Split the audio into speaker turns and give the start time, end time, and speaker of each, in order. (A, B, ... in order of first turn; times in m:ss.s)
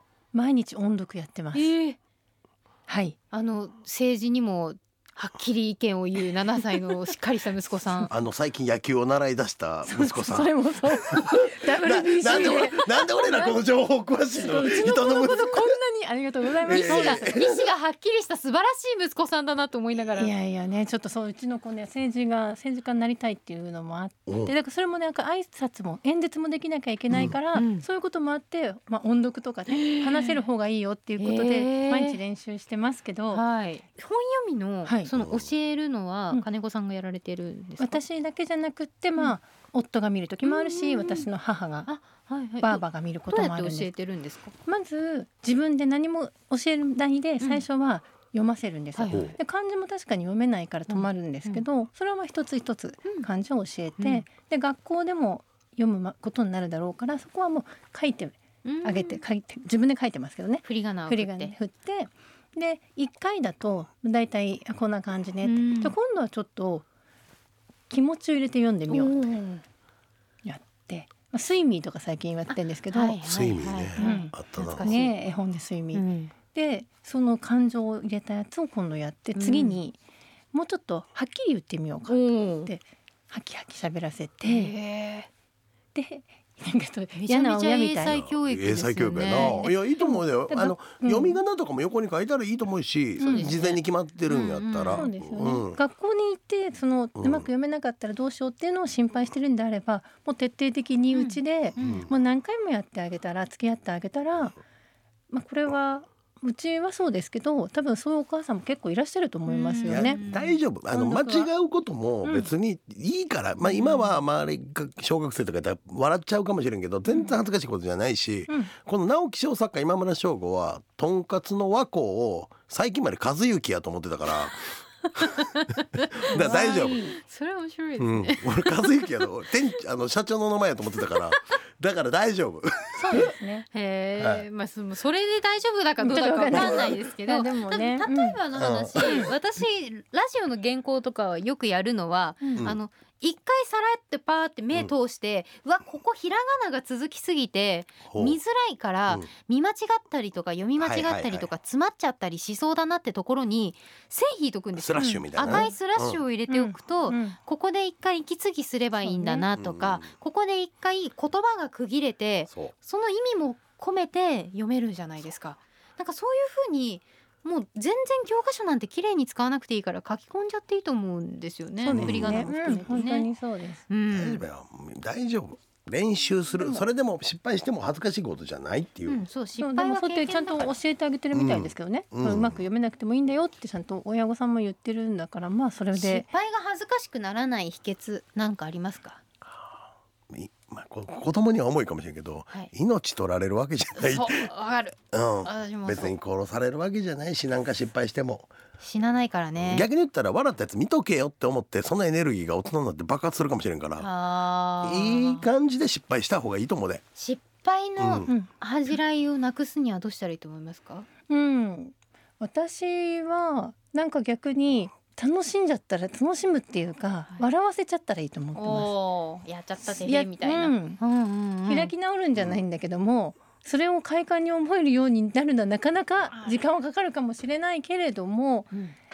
0:00.3-0:01.7 A
0:01.5-0:02.0 B
0:02.9-0:03.2 A
0:03.3-0:08.1 B
0:08.1-0:10.5 C
0:09.8-0:13.5 A
0:11.1-0:15.8 C
0:12.3-0:12.6 B
0:14.4-0:17.4 A
0:16.6-0:17.6 C
0:16.8-0:20.3 B
0:20.1-0:33.4 A
0:24.3-0:24.5 C
0:27.5-0:27.8 B
0:29.7-0:30.4 B
0:31.2-0:32.2 B
0:33.3-0:38.0 B
0:35.2-0:35.5 C
0:37.8-0:41.9 A
0:40.4-0:41.3 B
0:41.8-0:44.5 B
0:42.6-0:43.9 A
0:44.6-1:06.8 A
0:49.0-0:49.4 B
0:49.1-0:49.4 C
0:50.9-0:51.6 B
0:54.0-0:54.2 B
0:58.6-0:59.2 B
1:00.6-1:01.5 B
1:05.4-1:05.9 B
1:07.9-1:09.3 A
1:08.9-1:09.6 B
1:10.4-1:13.2 A
1:12.5-1:15.1 B
1:13.2-1:14.9 C
1:14.0-1:20.0 A
1:15.9-1:16.3 B
1:19.4-1:19.8 B
1:20.5-1:24.7 A
1:22.1-1:22.7 B
1:24.4-1:25.3 B
1:25.9-1:28.2 A
1:27.1-1:29.7 B
1:28.0-1:35.8 C
1:29.3-1:31.4 A
1:33.2-1:33.5 A
1:33.2-1:35.1 B
1:34.9-1:44.6 A
1:37.2-1:37.4 C
1:41.1-1:42.1 B
1:41.8-1:42.1 C
1:45.3-1:50.2 A
1:49.5-1:50.6 B
1:49.9-2:05.3 C
1:50.9-1:51.5 A
1:52.2-1:52.5 A
1:53.6-1:54.1 B
2:05.3-2:09.0 B
2:06.1-2:07.0 C
2:06.3-2:07.2 A
2:08.0-2:13.2 C
2:13.0-2:13.6 A
2:13.7-2:53.3 B
2:14.2-2:14.4 C
2:16.0-2:18.4 A
2:18.5-2:19.3 C
2:19.0-2:19.3 A
2:22.4-2:22.7 A
2:28.1-2:28.4 C
2:30.8-2:31.5 C
2:34.7-2:36.2 C
2:35.0-2:35.7 A
2:36.5-2:37.4 A
2:39.0-2:39.4 A
2:39.5-2:40.1 C
2:51.8-2:53.8 A
2:51.9-2:53.0 C
2:53.9-2:54.4 B
2:54.1-2:59.2 C
2:59.1-3:00.7 B
2:59.6-3:06.3 A
3:01.3-3:02.6 C
3:05.9-3:09.2 B
3:09.5-3:14.5 C
3:14.0-3:16.1 B
3:15.1-3:18.5 C
3:18.8-3:19.9 B
3:19.6-3:24.1 C
3:24.0-3:25.4 B
3:24.8-3:27.0 C
3:27.2-3:31.1 B
3:28.0-3:28.3 C
3:31.3-3:38.9 A
3:38.5-3:41.9 B
3:39.8-3:41.0 A
3:41.7-3:48.7 A